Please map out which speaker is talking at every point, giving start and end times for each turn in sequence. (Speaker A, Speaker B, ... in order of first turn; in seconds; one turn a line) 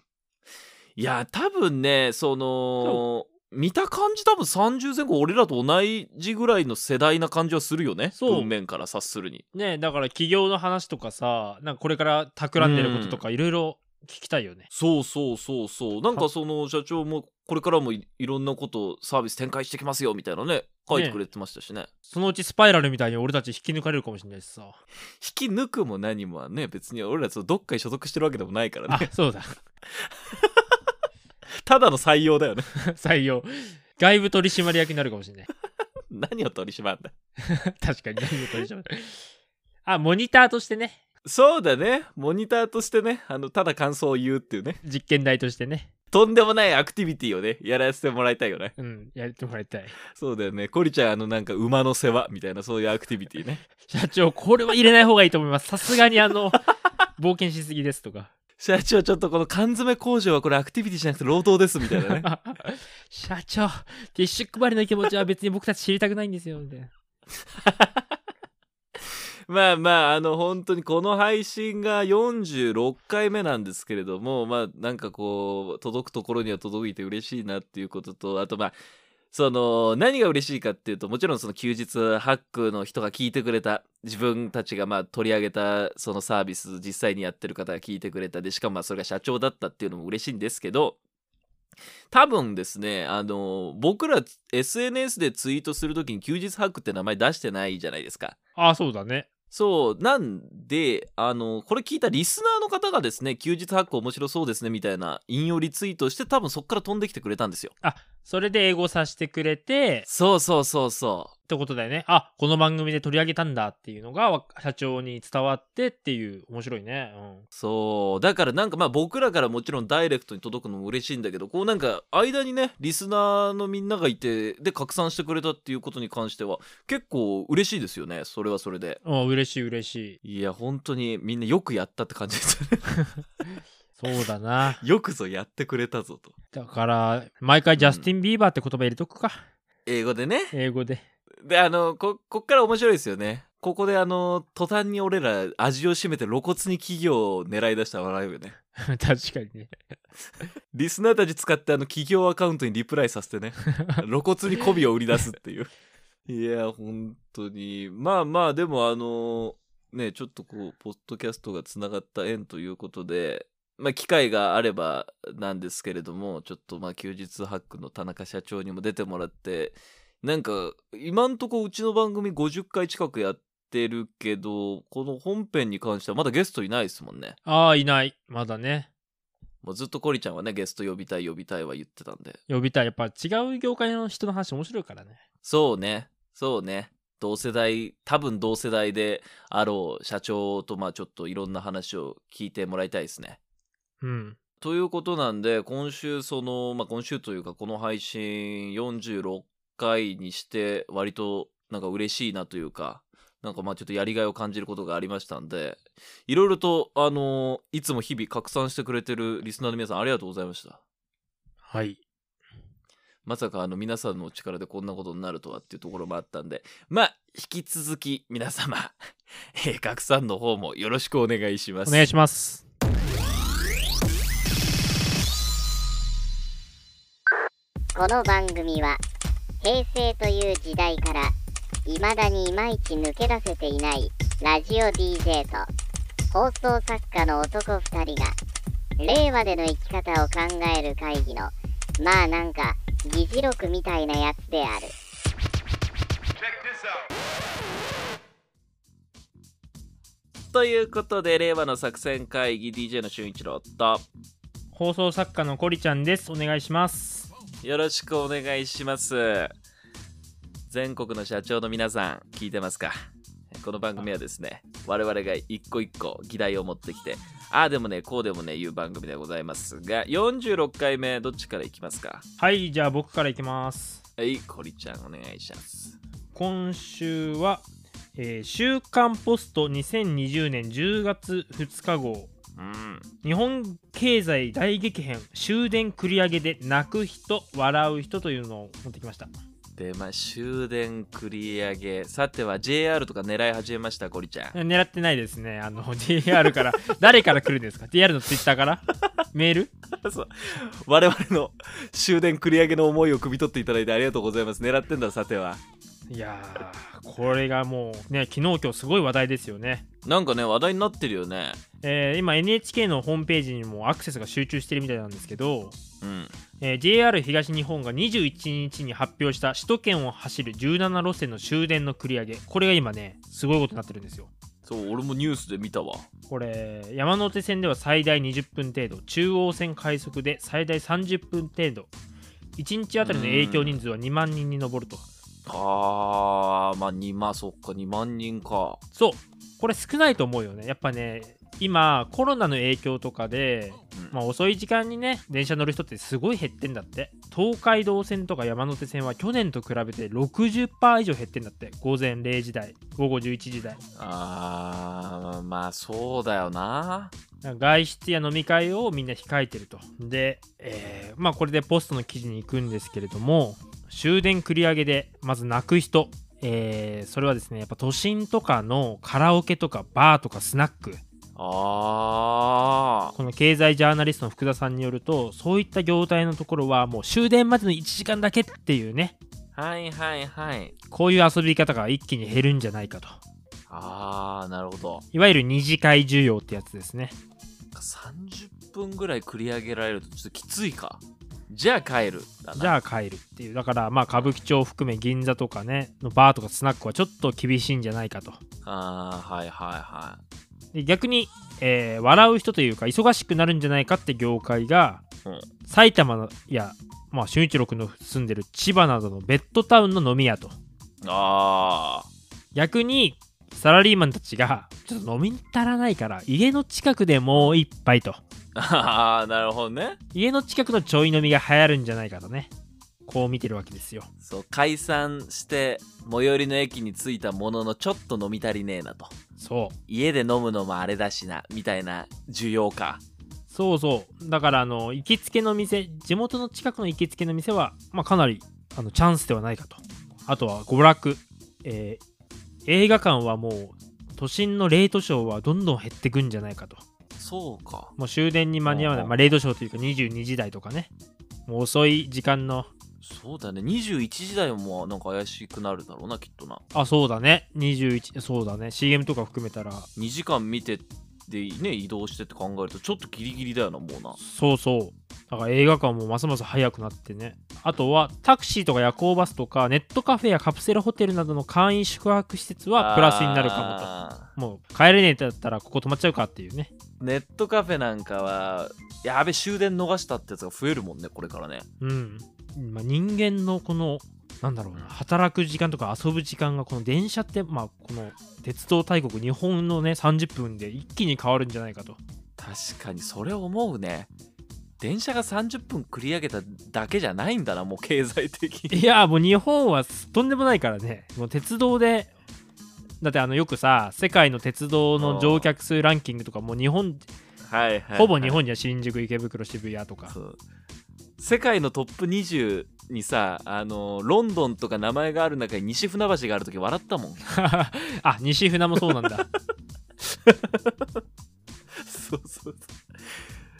Speaker A: 1.0-9.4
Speaker B: 8.2-8.5
Speaker B: 9.5-14.7
Speaker A: 12.6-13.2
Speaker A: 14.7-21.9
Speaker B: 20.9-21.2
Speaker B: 22.1-24.8
Speaker A: 25.2-29.1
Speaker B: 28.9-29.6
Speaker A: 29.9-30.6
Speaker A: 31.6-32.7
Speaker B: 32.8-35.5
Speaker A: 36.1-37.1
Speaker B: 37.4-39.2
Speaker B: 39.8-41.0
Speaker A: 41.2-44.8
Speaker B: 44.8-45.9
Speaker A: 46.1-48.7
Speaker B: 48.8-50.0
Speaker A: 50.1-53.6
Speaker B: 53.9-56.6
Speaker B: 57.2-58.3
Speaker A: 58.6-62.3
Speaker B: 61.9-66.9
Speaker A: 67.6-68.0
Speaker A: 69.5-78.8
Speaker A: 79.3-91.0
Speaker A: 92.1-98.3
Speaker B: 98.5-99.3
Speaker A: 99.5-107.7
Speaker B: 107.8-110.0
Speaker A: 110.1-111.3
Speaker B: 111.5-117.4
Speaker A: 117.5-129.0
Speaker B: 129.0-130.2
Speaker A: 130.2-133.0
Speaker B: 133.9-134.8
Speaker A: 134.8-136.3
Speaker B: 136.5-139.4
Speaker A: 137.8-138.1
Speaker A: 139.8-140.5
Speaker B: 140.5-141.0
Speaker A: 141.4-148.6
Speaker B: 148.8-149.7
Speaker A: 150.7-155.7
Speaker A: 156.3-177.4
Speaker B: 177.4-178.9
Speaker A: 179.6-182.4
Speaker B: 182.5-185.2
Speaker A: 185.4-193.4
Speaker B: 194.0-194.4
Speaker A: 194.6-210.8
Speaker B: 211.7-212.0
Speaker A: 213.2-218.9
Speaker A: 219.5-222.0
Speaker B: 221.8-222.6
Speaker C: 227.9-229.0
Speaker C: 229.6-231.3
Speaker C: 231.8-235.7
Speaker C: 236.3-238.3
Speaker C: 239.0-244.9
Speaker A: 250.5-254.0
Speaker B: 254.7-257.3
Speaker A: 257.6-259.5
Speaker A: 260.7-262.9
Speaker A: 263.5-272.2
Speaker B: 272.4-274.0
Speaker A: 274.2-275.9
Speaker B: 276.3-277.6
Speaker B: 278.1-282.3
Speaker A: 282.6-283.1
Speaker B: 283.2-289.3
Speaker A: 289.8-294.6
Speaker B: 294.5-299.7
Speaker A: 299.9-305.6
Speaker B: 306.1-309.8
Speaker A: 310.0-311.6
Speaker B: 311.8-315.8
Speaker A: 316.0-316.3
Speaker B: 316.6-324.3
Speaker A: 324.6-326.1
Speaker B: 326.3-331.9
Speaker B: 332.6-335.0
Speaker A: 333.0-333.8
Speaker A: 335.5-338.8
Speaker B: 338.9-353.8
Speaker A: 353.9-357.1
Speaker B: 357.4-371.0
Speaker A: 371.4-373.1
Speaker B: 373.1-379.1
Speaker A: 379.5-380.7
Speaker B: 380.9-383.2
Speaker A: 383.7-385.0
Speaker B: 385.1-387.1
Speaker A: 387.7-392.8
Speaker B: 392.6-398.4
Speaker A: 398.6-400.2
Speaker B: 400.7-405.0
Speaker B: 405.6-410.6
Speaker A: 411.0-412.1
Speaker B: 412.5-418.2
Speaker A: 418.5-420.0
Speaker B: 420.1-422.5
Speaker B: 423.0-424.1
Speaker A: 424.2-429.1
Speaker B: 429.4-429.8
Speaker A: 429.9-433.0
Speaker B: 433.5-442.0
Speaker B: 442.6-446.8
Speaker A: 447.2-447.9
Speaker B: 448.0-450.9
Speaker A: 448.6-449.2
Speaker B: 451.5-452.7
Speaker A: 453.0-456.6
Speaker B: 456.7-459.9
Speaker A: 459.9-464.2
Speaker B: 464.2-476.7
Speaker A: 472.7-474.3
Speaker A: 477.0-481.7
Speaker B: 481.8-492.0
Speaker A: 492.4-494.1
Speaker A: 494.8-498.8
Speaker B: 498.7-502.1
Speaker B: 503.0-507.1
Speaker A: 505.0-505.5
Speaker A: 507.4-508.4
Speaker B: 507.9-510.1
Speaker A: 510.1-510.4
Speaker A: 511.2-517.2
Speaker B: 517.3-519.2
Speaker A: 520.1-521.0
Speaker A: 521.7-523.2